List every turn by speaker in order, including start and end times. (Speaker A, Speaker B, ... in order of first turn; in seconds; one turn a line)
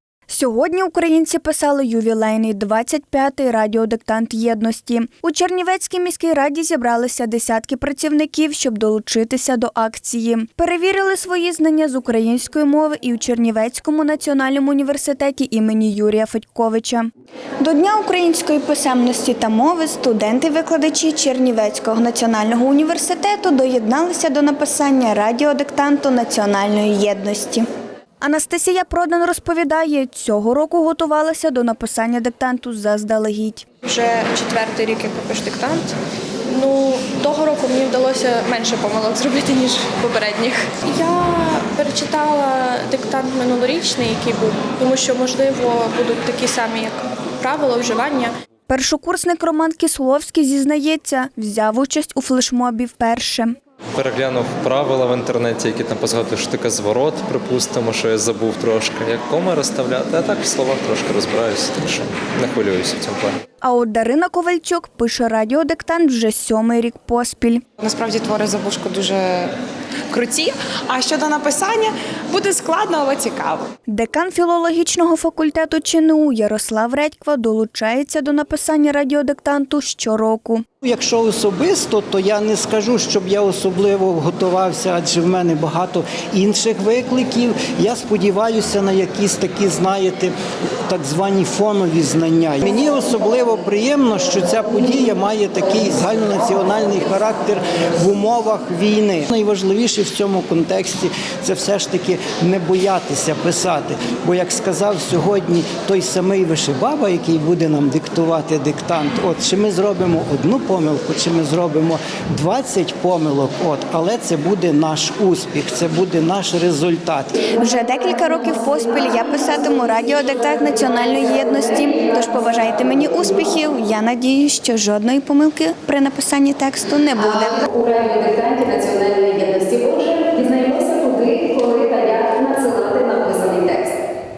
Speaker A: 0.3-17.1
Speaker A: 17.6-27.7
Speaker A: 28.2-33.7
Speaker B: 33.8-35.8
Speaker B: 36.5-48.3
Speaker A: 48.7-53.5
Speaker C: 54.0-63.3
Speaker A: 63.6-67.6
Speaker D: 67.8-69.5
Speaker D: 70.1-73.7
Speaker A: 73.9-80.6
Speaker E: 80.8-90.3
Speaker E: 90.9-117.3
Speaker A: 117.5-127.7
Speaker F: 127.8-133.9